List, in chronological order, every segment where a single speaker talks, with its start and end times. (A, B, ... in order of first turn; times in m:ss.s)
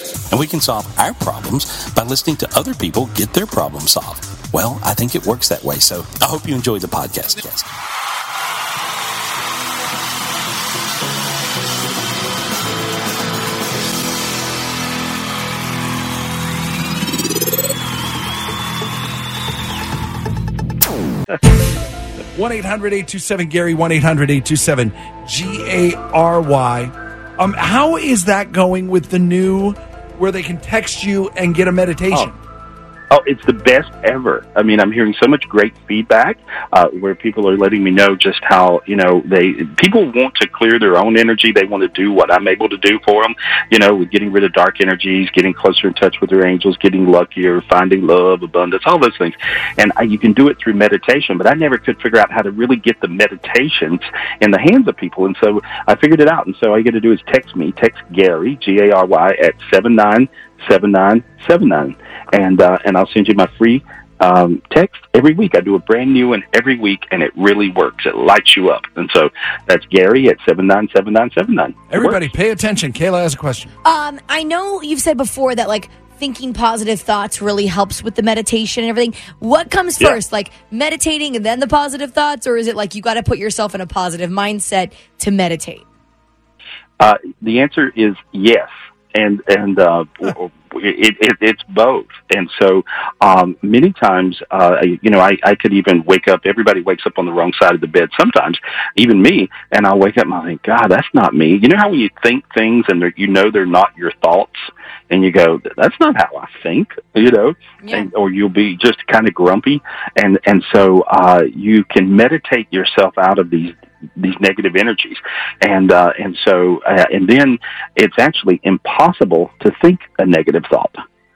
0:00.3-0:07.7 A
0:22.3-0:32.4 B
0:33.1-1:12.3 C
1:11.9-1:13.7 B
1:13.8-1:25.8 D
1:27.0-2:01.0 C
1:47.8-1:48.1 D